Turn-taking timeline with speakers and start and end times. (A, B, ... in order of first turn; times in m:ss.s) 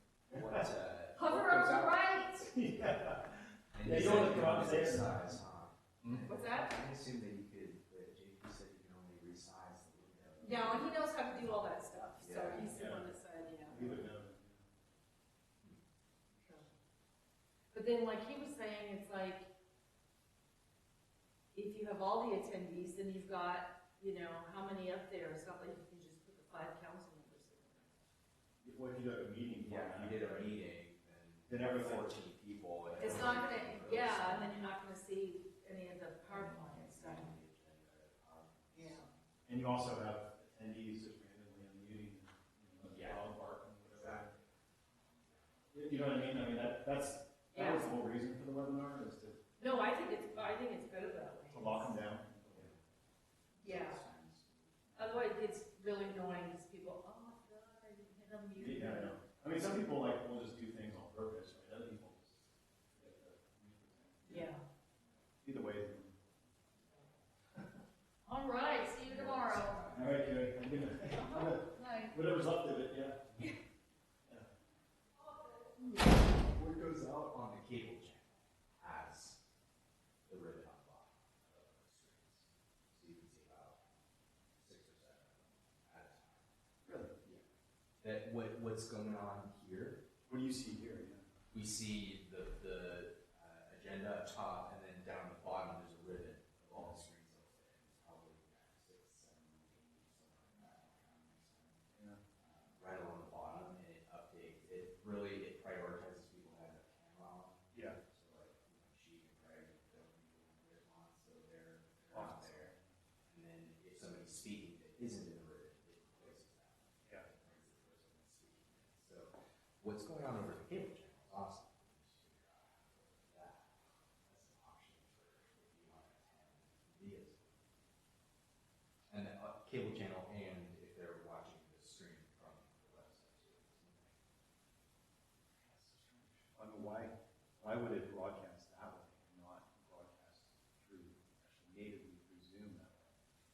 0:00.3-0:02.1 A
0:00.3-0:00.7 B
0:01.2-0:02.5 C
0:02.4-0:05.4 B
0:03.7-0:12.8 A
0:06.2-0:06.8 C
0:10.4-0:13.8 C
0:12.6-0:13.1 B
0:13.6-0:14.7 B
0:16.4-0:16.7 C
0:17.7-0:19.5 C
0:21.5-0:28.0 C
0:28.6-0:30.3 B
0:29.6-0:34.5 A
0:31.5-0:32.2 B
0:33.0-0:37.3 C
0:36.3-0:39.4 A
0:38.7-0:39.1 C
0:39.5-0:44.3 B
0:42.8-0:44.4 A
0:45.7-0:49.4 B
0:47.5-0:47.9 C
0:49.6-0:52.0 C
0:51.5-0:52.7 B
0:52.5-0:52.8 A
0:53.6-0:54.0 C
0:53.6-0:55.4 A
0:55.0-0:59.1 C
0:58.6-1:02.4 B
1:03.0-1:04.5 B
1:04.3-1:04.6 C
1:05.4-1:06.2 B
1:08.2-1:09.8 C
1:09.0-1:10.2 A
1:09.9-1:13.4 B
1:11.1-1:12.2 C
1:15.8-1:19.4 A
1:20.3-1:23.8 A
1:24.5-1:26.5 A
1:26.8-1:27.2 B
1:28.0-1:30.0 A
1:30.3-1:31.2 B
1:31.5-1:52.7 A
1:41.9-1:42.2 B
1:47.7-1:48.0 B
1:52.1-1:52.9 B
1:53.3-2:03.7 A
2:04.2-2:07.6 A
2:09.1-2:14.2 A
2:15.5-2:16.5 A
2:16.6-2:23.1 B